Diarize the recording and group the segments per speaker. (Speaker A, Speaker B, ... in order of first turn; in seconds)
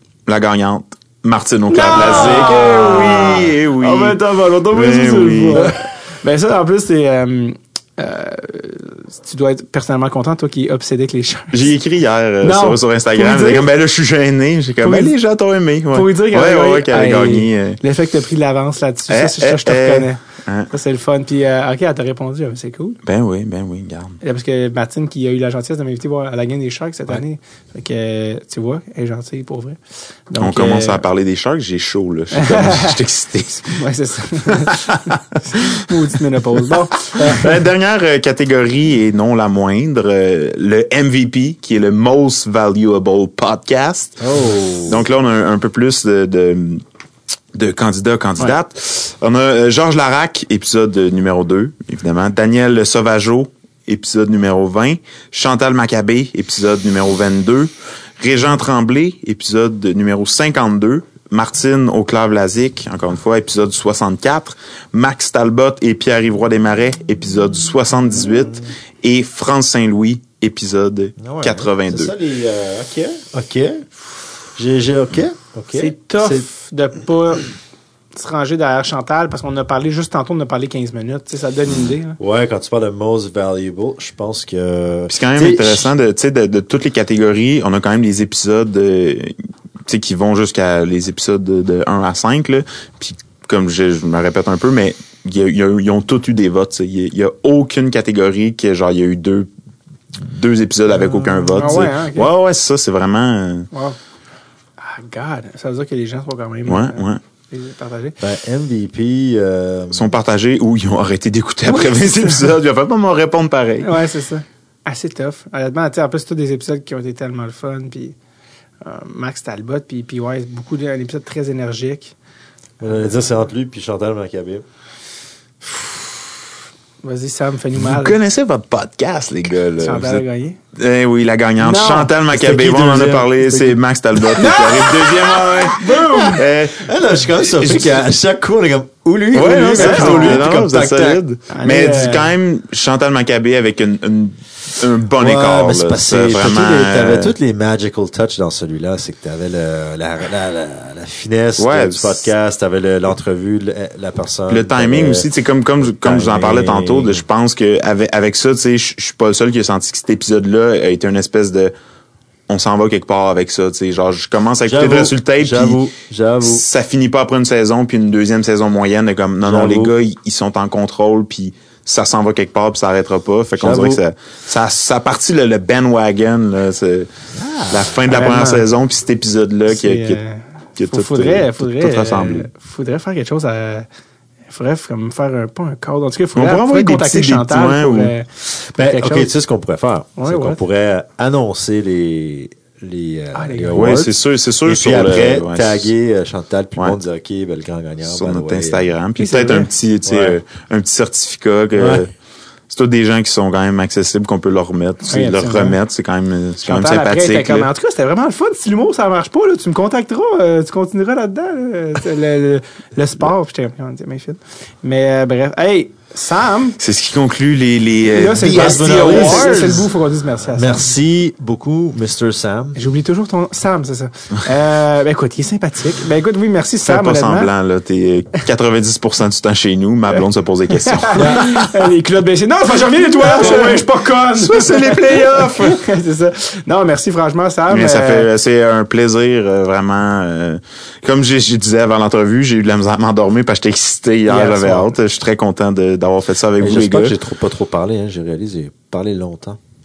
Speaker A: 0.3-5.8, 11.5-17.8, 19.1-20.7, 23.1-24.2, 30.4-33.8, 34.6-35.0, 37.1-44.2, 44.9-46.8, 47.5-72.1, 85.1-99.5, 100.2-103.7, 106.7-107.2, 109.9-113.9, 127.8-130.2, 130.8-136.8, 139.3-147.3, 151.6-152.2, 154.5-161.7, 162.5-165.8, 166.4-177.1, 177.7-180.2, 180.8-182.5, 186.4-188.1, 193.7-195.9, 198.1-202.1, 202.7-207.7, 216.8-219.7, 226.8-231.7, 233.2-235.8, 237.7-247.2
Speaker B: 1.7-11.7, 12.4-13.7, 14.8-15.1, 15.9-20.2, 20.7-23.0, 24.2-31.0, 32.3-33.0, 33.7-37.6, 72.9-73.2, 75.7-77.5, 78.2-82.2, 101.5-102.3, 103.7-104.0, 104.8-108.2, 111.7-112.4, 113.8-118.2, 118.8-122.2, 127.0-128.2, 129.8-130.6, 131.6-132.1, 134.3-136.5, 137.6-138.0, 139.7-140.5, 141.5-142.3, 178.1-178.6, 179.7-183.9, 184.5-189.3, 190.2-190.6, 193.3-194.0, 199.2-199.7, 205.1-205.8, 206.6-216.8, 218.1-220.9, 222.8-227.5, 230.8-238.3, 244.3-244.9
Speaker C: 2.2-3.5, 44.2-45.0, 71.2-73.9, 74.5-76.5, 82.2-85.9, 100.9-101.8, 108.2-110.2, 122.8-124.6, 132.3-133.8, 135.8-141.2, 145.2-155.3, 155.9-157.2, 164.7-166.6, 169.4-169.9, 173.6-174.0, 177.3-178.0, 188.7-194.1, 194.7-198.9, 200.1-200.4, 201.8-202.0, 218.4-219.9, 220.5-222.8, 231.2-231.5, 246.6-249.6